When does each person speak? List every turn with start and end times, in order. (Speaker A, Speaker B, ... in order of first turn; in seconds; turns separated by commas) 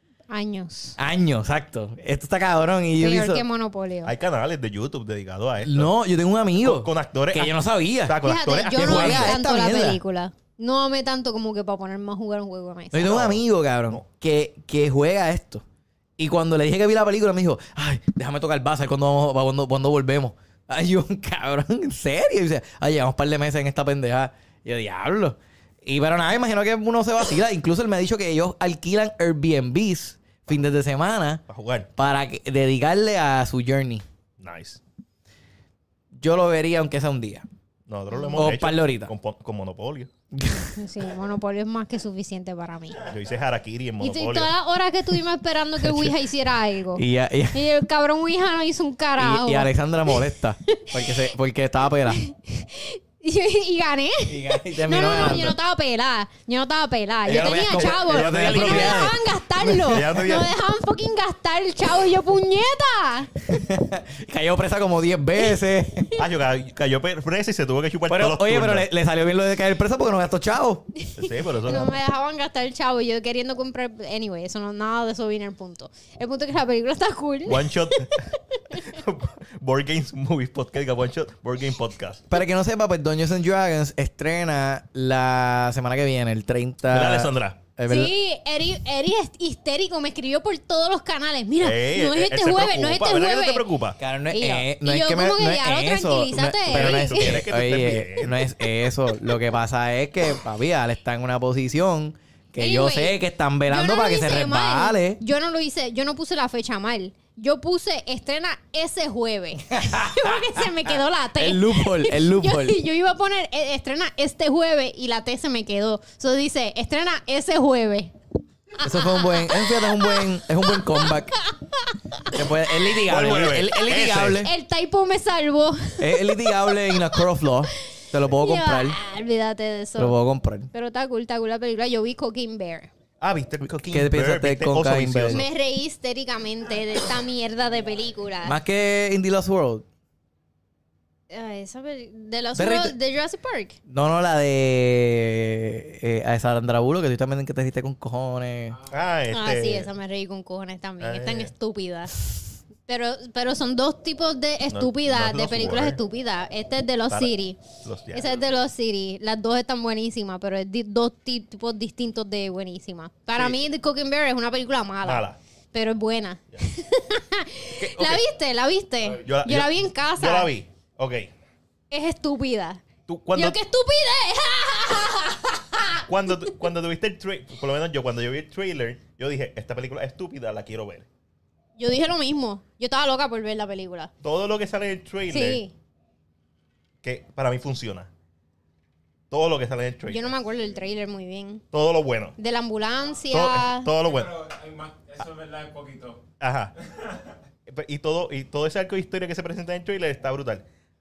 Speaker A: 0.3-1.0, Speaker B: 1.0-3.4, Speaker A: 3.0-4.1, Speaker C: 4.0-5.9, Speaker B: 5.6-8.2, Speaker C: 6.6-9.3, Speaker A: 8.2-13.2, Speaker B: 8.7-10.0, Speaker B: 12.9-15.6, Speaker C: 13.0-14.0, Speaker B: 16.2-31.4, Speaker C: 31.5-31.9, Speaker B: 31.9-34.0, Speaker C: 34.4-34.8, Speaker B: 36.2-37.5, Speaker C: 37.9-40.1, Speaker A: 38.1-38.4, Speaker B: 38.3-39.1, Speaker B: 40.3-40.8, Speaker A: 40.5-43.0, Speaker C: 43.0-44.5, Speaker A: 44.0-51.0, Speaker B: 45.8-46.1, Speaker B: 46.9-47.6, Speaker B: 49.2-52.2, Speaker A: 52.1-63.3, Speaker B: 54.3-55.5, Speaker C: 57.2-59.2, Speaker B: 57.2-60.1, Speaker C: 59.8-60.5, Speaker B: 63.4-66.1, Speaker C: 66.1-68.9, Speaker B: 68.1-70.9, Speaker A: 71.0-79.0, Speaker C: 71.2-72.0, Speaker C: 77.5-82.3, Speaker B: 82.3-88.1, Speaker C: 86.9-87.6, Speaker A: 87.9-93.6, Speaker C: 91.6-94.0, Speaker B: 94.0-105.2, Speaker A: 94.3-97.4, Speaker C: 96.3-98.4, Speaker A: 102.6-103.2, Speaker A: 103.7-118.1, Speaker B: 109.7-110.6, Speaker B: 111.4-112.8, Speaker A: 118.8-122.3, Speaker B: 118.8-121.3, Speaker B: 122.2-124.5, Speaker C: 123.1-124.4, Speaker A: 124.1-127.2, Speaker B: 126.0-129.0, Speaker A: 128.3-130.1, Speaker B: 130.0-130.7, Speaker A: 130.7-132.9, Speaker C: 133.2-135.4, Speaker B: 133.6-135.4, Speaker A: 135.3-138.6, Speaker B: 138.4-139.8, Speaker A: 141.3-143.8, Speaker B: 142.6-142.9, Speaker B: 143.9-148.8, Speaker C: 148.9-149.9, Speaker A: 149.3-157.6, Speaker C: 151.0-151.5, Speaker C: 154.7-156.0, Speaker C: 157.1-158.3, Speaker A: 158.1-170.5, Speaker C: 165.0-165.4, Speaker C: 167.8-168.2, Speaker C: 169.2-171.3, Speaker A: 171.9-172.8, Speaker C: 173.1-173.6, Speaker A: 173.3-176.6, Speaker C: 176.0-181.1, Speaker A: 181.8-184.1, Speaker C: 184.2-185.6, Speaker A: 185.3-185.7, Speaker C: 187.0-188.1, Speaker C: 189.3-190.4, Speaker A: 190.1-191.6, Speaker C: 191.7-192.3, Speaker A: 192.4-193.9, Speaker C: 193.3-194.4, Speaker D: 194.0-196.2, Speaker C: 196.4-196.7, Speaker C: 197.7-200.6